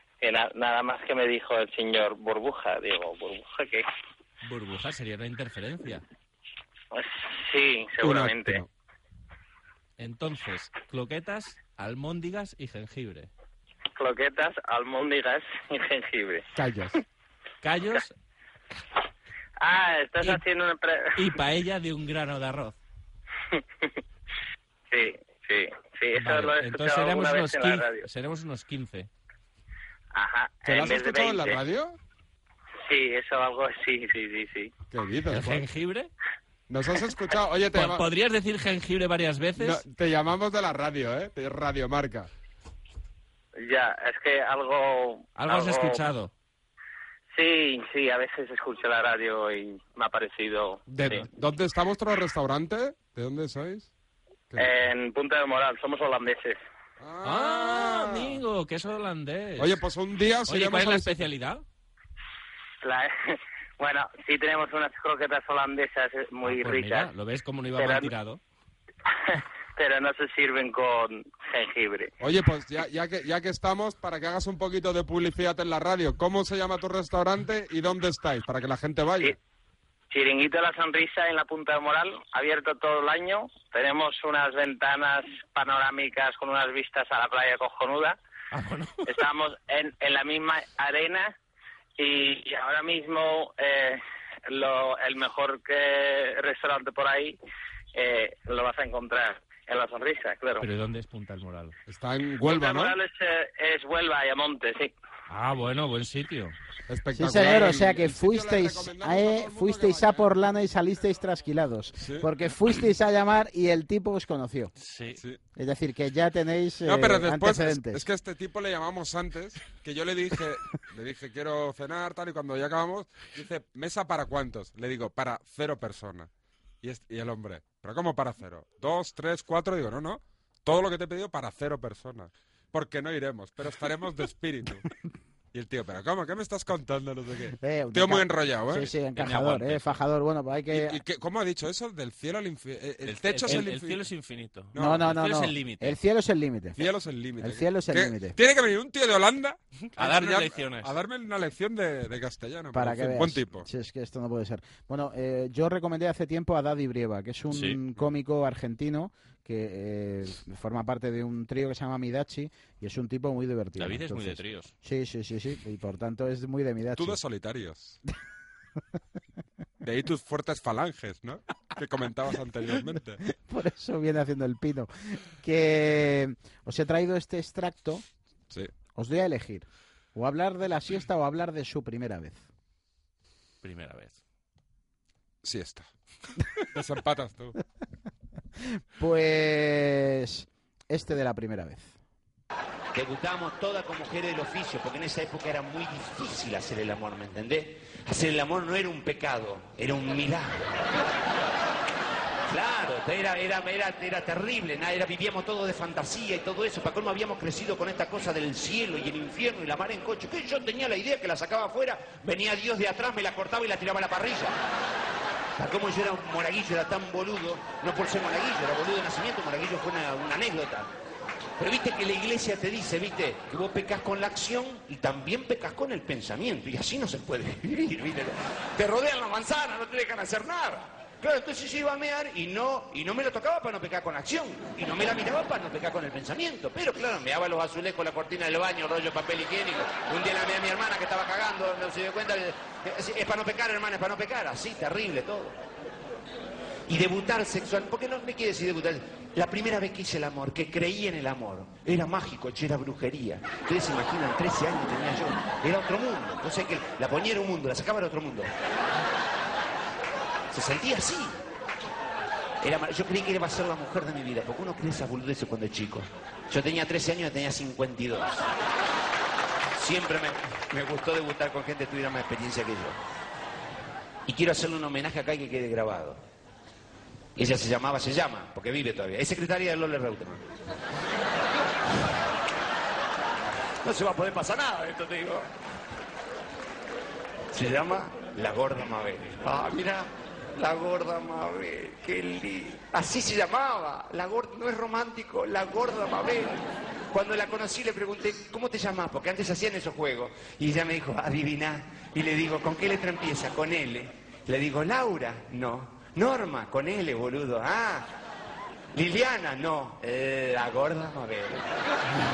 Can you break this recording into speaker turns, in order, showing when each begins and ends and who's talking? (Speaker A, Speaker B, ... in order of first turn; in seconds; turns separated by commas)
Speaker A: 0.2-3.8, Speaker B: 4.4-6.0, Speaker A: 6.9-8.6, Speaker C: 8.0-8.7, Speaker B: 10.0-13.3, Speaker A: 14.0-16.4, Speaker C: 16.6-17.0, Speaker B: 17.6-18.1, Speaker A: 19.6-21.3, Speaker B: 21.1-22.8, Speaker A: 23.5-23.9, Speaker A: 24.9-28.1, Speaker B: 26.2-29.1, Speaker A: 30.1-31.6, Speaker C: 30.6-32.0, Speaker A: 32.9-34.7, Speaker C: 34.9-35.6, Speaker B: 35.3-36.1, Speaker C: 36.7-38.1, Speaker B: 37.7-39.8, Speaker C: 39.6-42.3, Speaker A: 43.6-46.0, Speaker B: 45.4-46.3, Speaker A: 47.4-51.2, Speaker C: 50.9-53.9, Speaker A: 54.6-56.6, Speaker C: 57.0-58.4, Speaker B: 57.2-59.8, Speaker C: 59.6-61.2, Speaker B: 60.5-61.6, Speaker A: 62.8-67.1, Speaker B: 66.4-68.4, Speaker A: 67.8-68.1, Speaker A: 69.1-72.1, Speaker C: 72.2-79.4, Speaker A: 80.1-88.2, Speaker B: 88.5-89.1, Speaker A: 89.1-91.3, Speaker A: 92.0-97.4, Speaker A: 97.9-100.7, Speaker B: 100.6-101.8, Speaker C: 101.9-103.0, Speaker A: 102.5-104.9, Speaker B: 105.3-106.6, Speaker C: 106.9-110.3, Speaker D: 107.2-114.7, Speaker C: 112.0-112.3, Speaker B: 114.8-115.2, Speaker D: 115.5-118.0, Speaker C: 116.8-126.3, Speaker C: 126.8-134.9, Speaker C: 135.5-138.9, Speaker D: 137.5-141.0, Speaker B: 139.2-140.1, Speaker C: 140.7-144.1, Speaker B: 143.1-146.0, Speaker C: 144.7-145.1, Speaker D: 144.8-146.8, Speaker C: 146.8-153.7, Speaker D: 147.4-148.4, Speaker B: 149.9-150.9, Speaker D: 152.7-167.2, Speaker B: 157.5-157.8, Speaker B: 163.8-164.7, Speaker C: 167.0-168.0, Speaker C: 169.8-173.2, Speaker D: 173.2-178.0, Speaker D: 178.9-182.4, Speaker B: 183.6-184.2, Speaker C: 185.4-185.9, Speaker C: 186.7-187.6, Speaker D: 188.9-191.9, Speaker E: 192.9-200.9, Speaker E: 202.5-214.6, Speaker E: 215.6-220.9, Speaker E: 221.6-245.6, Speaker E: 246.9-258.5, Speaker E: 260.5-261.4, Speaker E: 262.6-268.5, Speaker E: 269.8-273.0, Speaker E: 274.3-276.2, Speaker E: 277.4-280.4, Speaker E: 283.8-285.5, Speaker E: 287.5-308.1, Speaker E: 308.9-311.6